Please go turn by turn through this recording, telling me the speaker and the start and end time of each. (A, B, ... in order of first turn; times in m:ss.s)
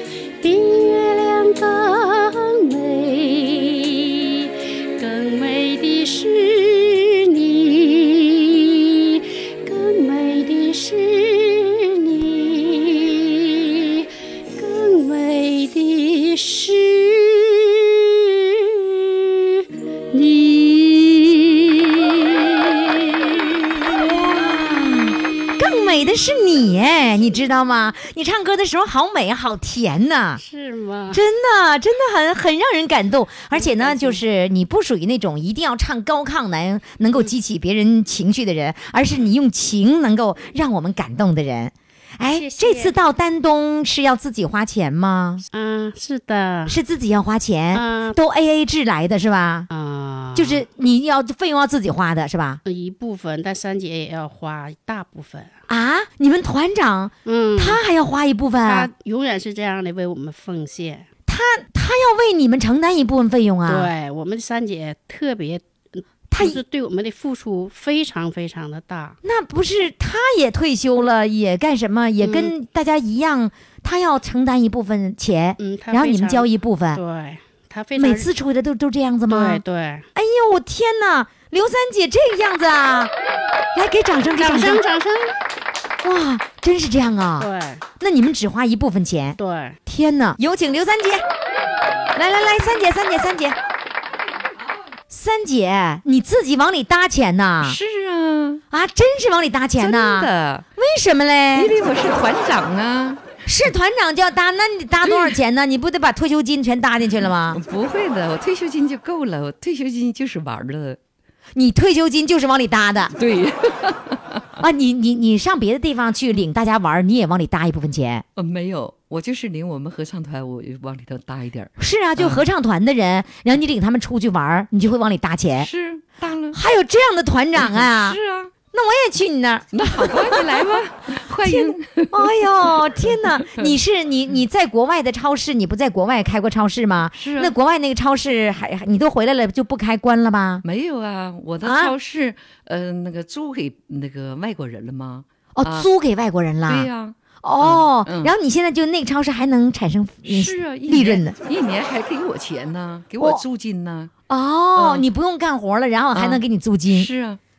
0:00.4-0:24.3 A
0:23.9-0:30.4 B
0:30.4-0:31.2 A
0:31.1-0:45.4 B
0:33.5-0:34.2 A
0:42.3-0:42.9 A
0:45.5-0:46.8 A
0:46.7-0:49.7 B
0:47.7-0:48.2 A
0:49.7-0:50.6 A
0:50.3-0:52.6 B
0:52.6-0:55.5 A
0:55.7-0:58.9 B
0:57.2-0:57.8 A
0:58.6-1:01.1 A
1:01.3-1:03.9 B
1:03.6-1:09.2 A
1:06.3-1:06.6 B
1:09.2-1:17.0 B
1:12.2-1:12.5 A
1:15.6-1:18.3 A
1:18.0-1:19.6 B
1:19.3-1:20.1 A
1:20.1-1:23.1 B
1:23.7-1:24.8 B
1:24.4-1:25.3 A
1:26.0-1:27.5 B
1:27.4-1:27.8 A
1:28.0-1:31.2 B
1:29.4-1:29.8 A
1:32.1-1:33.6 B
1:35.1-1:37.8 B
1:37.6-1:38.6 C
1:38.7-1:41.8 B
1:39.8-1:40.6 C
1:41.5-1:43.4 C
1:43.4-1:47.6 B
1:45.0-1:45.4 C
1:47.5-1:51.0 C
1:51.5-1:53.1 B
1:53.2-1:54.4 C
1:54.6-1:58.2 B
1:58.4-2:02.4 C
2:01.8-2:05.7 B
2:05.6-2:06.6 C
2:06.5-2:08.2 B
2:07.6-2:08.5 C
2:08.7-2:10.7 B
2:09.7-2:13.8 C
2:11.4-2:20.6 B
2:17.1-2:17.5 C
2:20.6-2:25.9 C
2:21.6-2:21.9 B
2:25.5-2:26.9 B
2:26.6-2:28.3 C
2:27.4-2:31.4 B
2:30.2-2:34.1 C
2:33.2-2:33.4 B
2:34.3-2:37.1 B
2:34.7-2:35.1 C
2:36.1-2:37.4 C